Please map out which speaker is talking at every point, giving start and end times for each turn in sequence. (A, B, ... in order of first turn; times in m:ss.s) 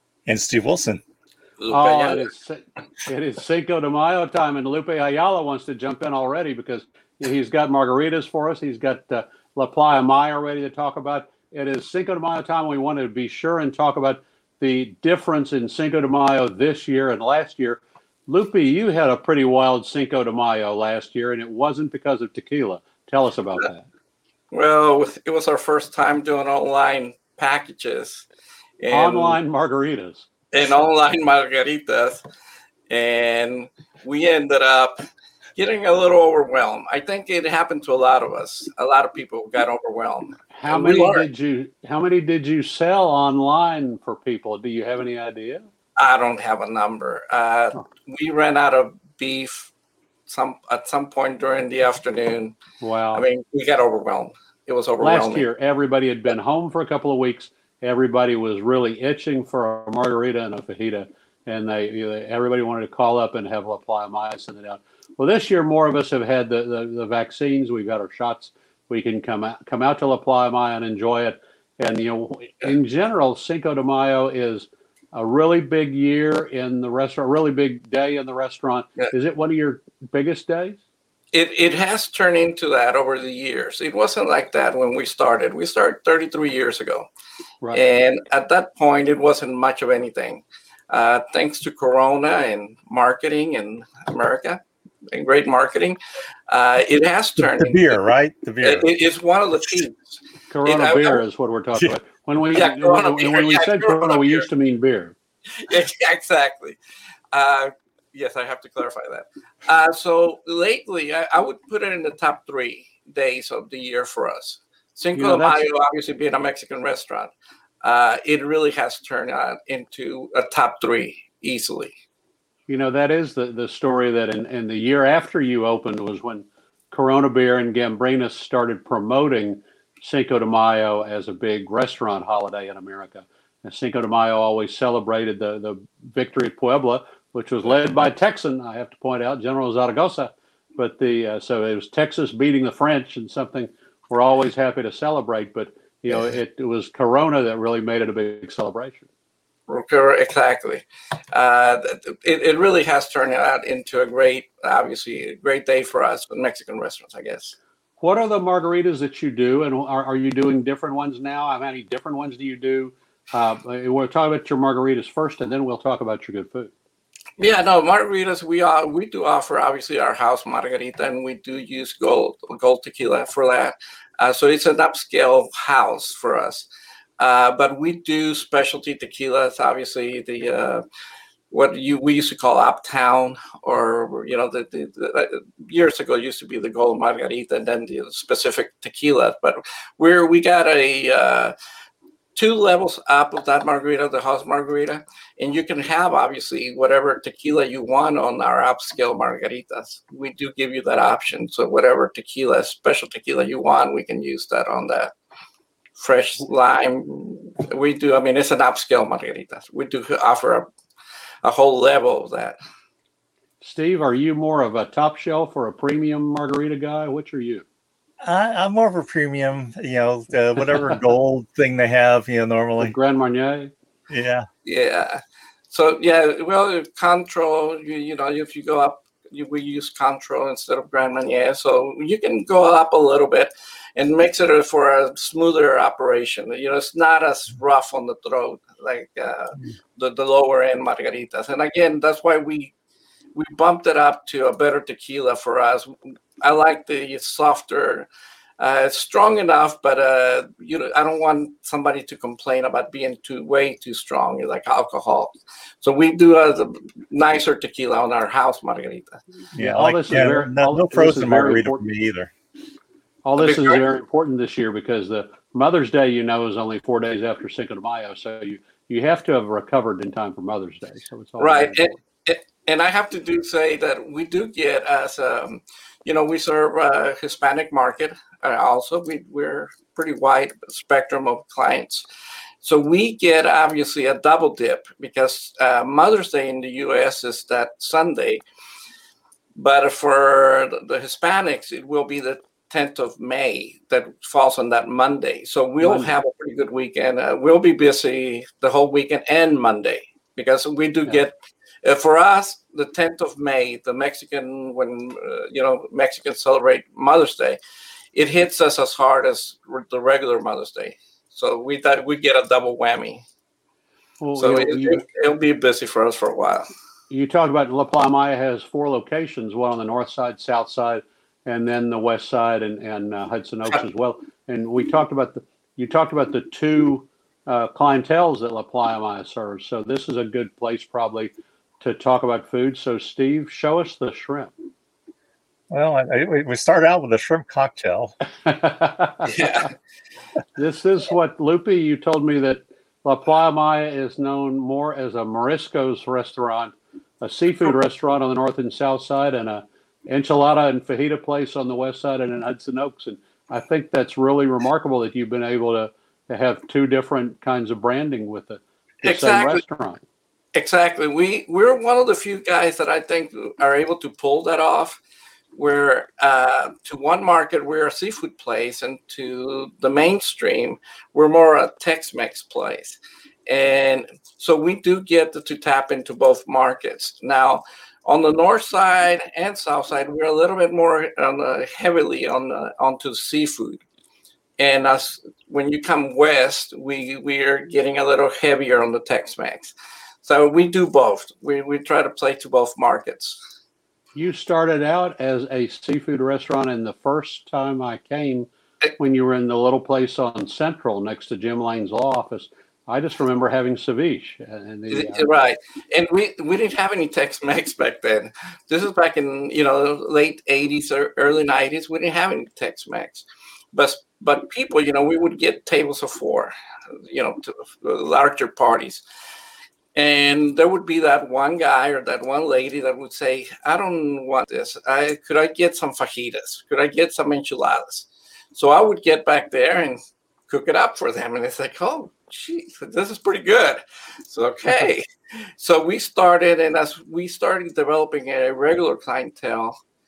0:00.2-0:01.0 A
0:01.6-0:02.3 B
0:01.7-0:23.9 C
0:24.5-0:28.2 B
0:28.8-0:29.4 B
0:28.9-0:30.3 C
0:30.5-0:32.2 B
0:32.9-0:35.0 B
0:35.6-0:41.2 B
0:40.5-0:45.6 C
0:46.0-0:49.7 B
0:50.3-0:52.6 B
0:52.8-0:53.2 C
0:53.1-0:55.5 B
0:55.0-1:20.8 C
1:21.3-1:27.1 B
1:27.7-1:34.6 B
1:35.1-1:36.0 B
1:36.5-1:38.0 B
1:37.4-1:38.9 A
1:38.6-1:41.2 B
1:40.5-1:45.1 C
1:42.5-1:44.4 B
1:45.6-1:46.8 B
1:47.3-1:57.3 B
1:55.1-1:55.6 C
1:57.8-2:01.9 B
2:02.7-2:29.1 C
2:29.7-2:37.6 B
2:38.0-2:46.7 C
2:47.4-2:56.7 B
2:57.2-3:00.8 B
3:01.5-3:11.5 B
3:12.3-3:25.1 B
3:26.0-3:30.7 B
3:31.4-3:32.6 B
3:33.6-3:37.6 C
3:38.2-3:42.9 A
3:40.7-3:41.0 C
3:42.8-3:43.7 C
3:44.1-3:44.5 A
3:44.6-4:02.7 B
4:03.3-4:08.1 B
4:08.6-4:19.2 B
4:19.5-4:22.3 A
4:19.6-4:21.8 C
4:23.2-4:32.0 C
4:23.4-4:23.8 B
4:31.4-4:42.0 B
4:42.6-4:48.4 B
4:49.6-5:07.6 B
4:55.8-4:56.1 C
5:08.1-5:13.2 B
5:14.2-5:15.0 C
5:14.4-5:16.7 B
5:17.1-5:34.5 C
5:35.7-5:38.1 A
5:38.4-5:39.4 C
5:39.2-5:39.7 B
5:40.6-6:00.0 C
5:59.0-5:59.6 B
6:00.5-6:05.0 B
6:05.6-6:23.8 B
6:24.6-6:33.4 B
6:34.1-6:45.2 C
6:44.9-6:56.5 B
6:57.1-6:59.0 B
6:59.9-7:19.8 B